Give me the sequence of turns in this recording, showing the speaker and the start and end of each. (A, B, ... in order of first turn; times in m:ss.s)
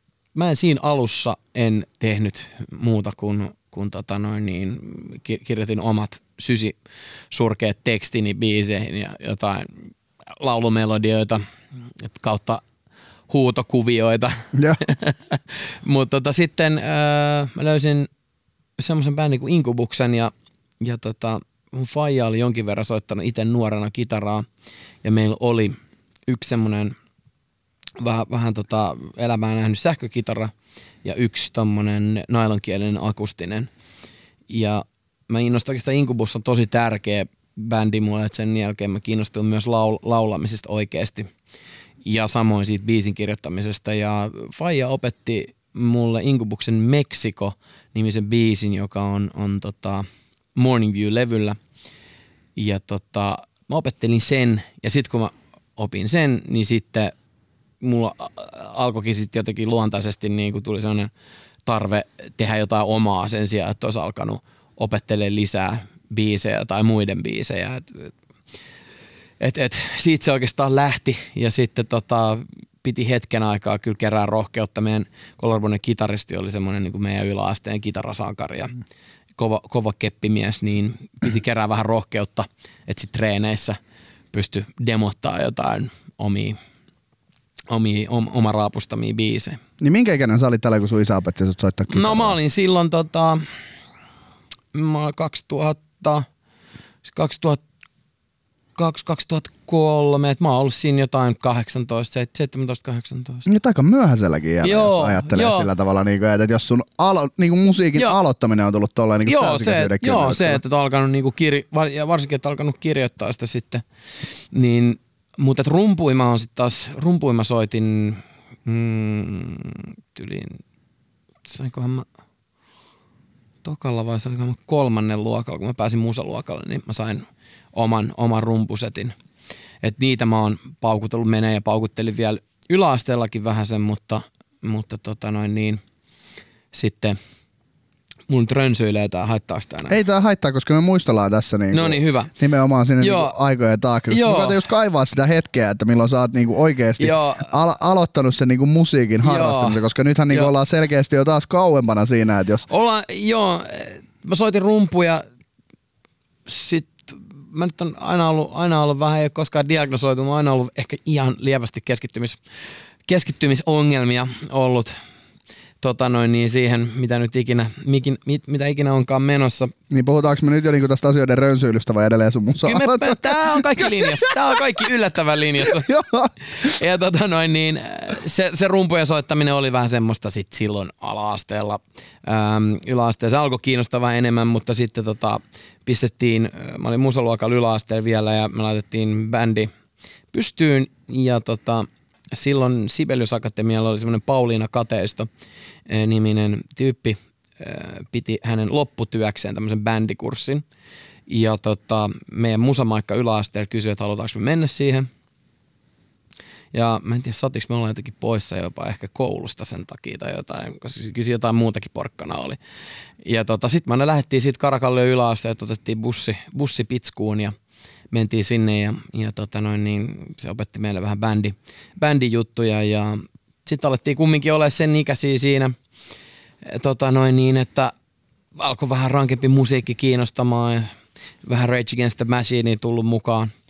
0:00.4-0:06.8 A
0:07.3-0:09.8 A
0:10.4-0:11.4 A
0:12.0-0:12.6 A
0:13.3-0:18.1 A
0:14.5-0:14.8 B
0:18.8-0:24.5 A
0:25.0-0:27.0 A
0:28.0-0:30.5 A
0:31.0-0:33.7 A
0:34.5-0:41.3 A
0:42.0-0:51.6 A
0:52.6-0:57.1 A
0:57.8-1:01.1 A
1:01.6-1:08.2 A
1:09.4-1:18.8 A
1:19.4-1:23.8 A
1:24.3-1:26.6 A
1:27.7-1:29.6 A
1:29.8-1:32.4 B
1:31.9-1:33.5 A
1:34.7-1:36.3 A
1:37.0-1:37.6 A
1:38.8-1:43.5 A
1:43.5-1:50.6 B
1:44.6-1:45.7 A
1:49.3-2:00.6 A
2:01.4-2:02.1 A
2:03.6-2:09.1 A
2:09.8-2:15.8 A
2:16.7-2:17.2 A
2:18.3-2:20.0 A
2:19.9-2:32.7 B
2:21.7-2:22.3 A
2:23.0-2:23.4 A
2:24.1-2:24.6 A
2:27.0-2:27.5 A
2:29.2-2:29.8 A
2:32.7-2:35.2 A
2:36.5-2:42.4 A
2:43.1-2:45.0 A
2:45.8-2:49.7 A
2:49.9-2:54.4 B
2:52.6-2:55.9 A
2:55.8-2:56.3 B
2:56.6-3:09.7 A
3:10.3-3:15.3 A
3:15.9-3:20.6 A
3:21.3-3:25.1 A
3:26.7-3:32.6 A
3:33.2-3:37.6 A
3:38.1-3:45.8 A
3:46.6-3:47.9 A
3:48.6-3:50.9 A
3:51.4-3:53.5 A